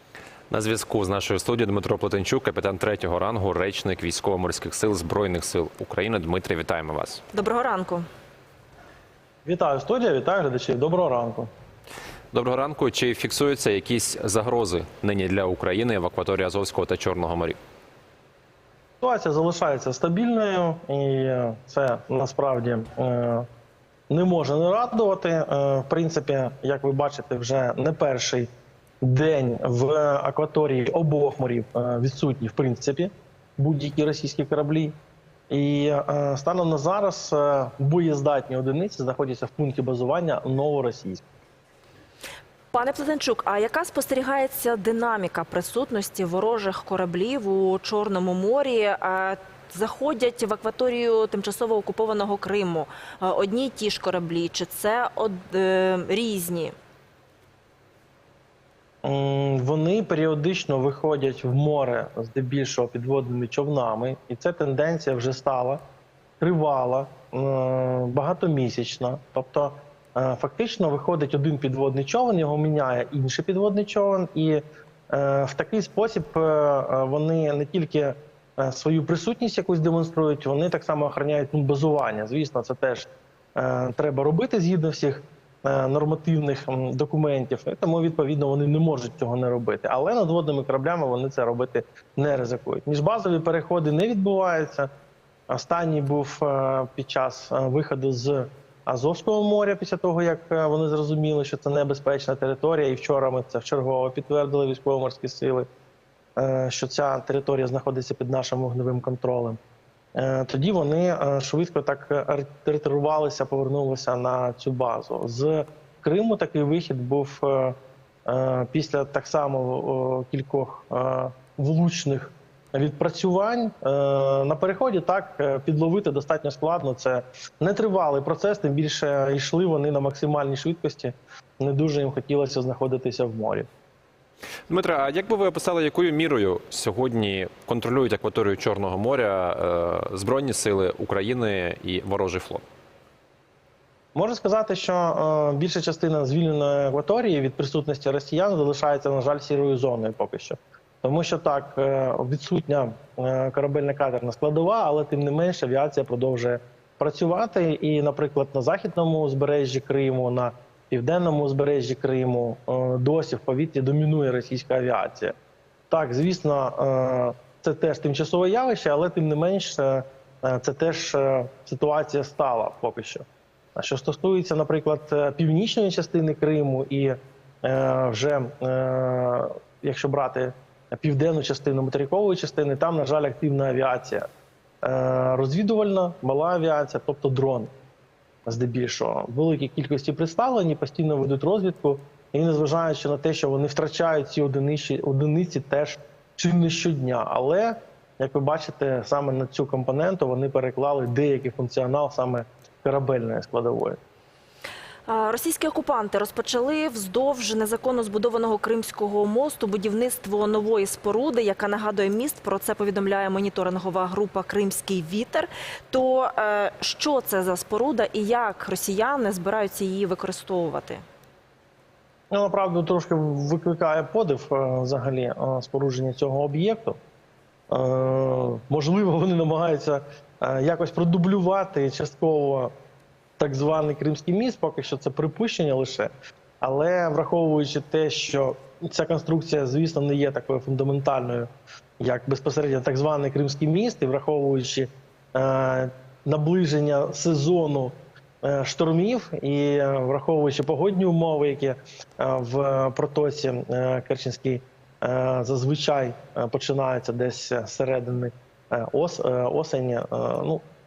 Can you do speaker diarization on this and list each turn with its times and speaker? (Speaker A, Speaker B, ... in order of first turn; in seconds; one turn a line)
Speaker A: 0.5-7.2
Speaker B: 7.3-8.1
Speaker C: 9.4-11.5
Speaker A: 12.3-17.6
Speaker C: 19.0-23.5
Speaker C: 24.1-28.5
Speaker C: 29.0-35.0
Speaker C: 35.5-41.2
Speaker B: 42.7-56.7
Speaker C: 59.0-65.8
Speaker C: 66.4-94.9
Speaker C: 95.5-105.7
Speaker C: 106.4-109.6
Speaker C: 110.2-133.7
Speaker A: 134.7-142.6
Speaker C: 144.1-165.3
Speaker C: 165.9-173.2
Speaker C: 173.8-184.2
Speaker C: 184.8-187.7
Speaker C: 188.5-204.0
Speaker B: 205.1-221.0
Speaker C: 222.3-227.0
Speaker C: 227.7-232.7
Speaker C: 233.4-260.6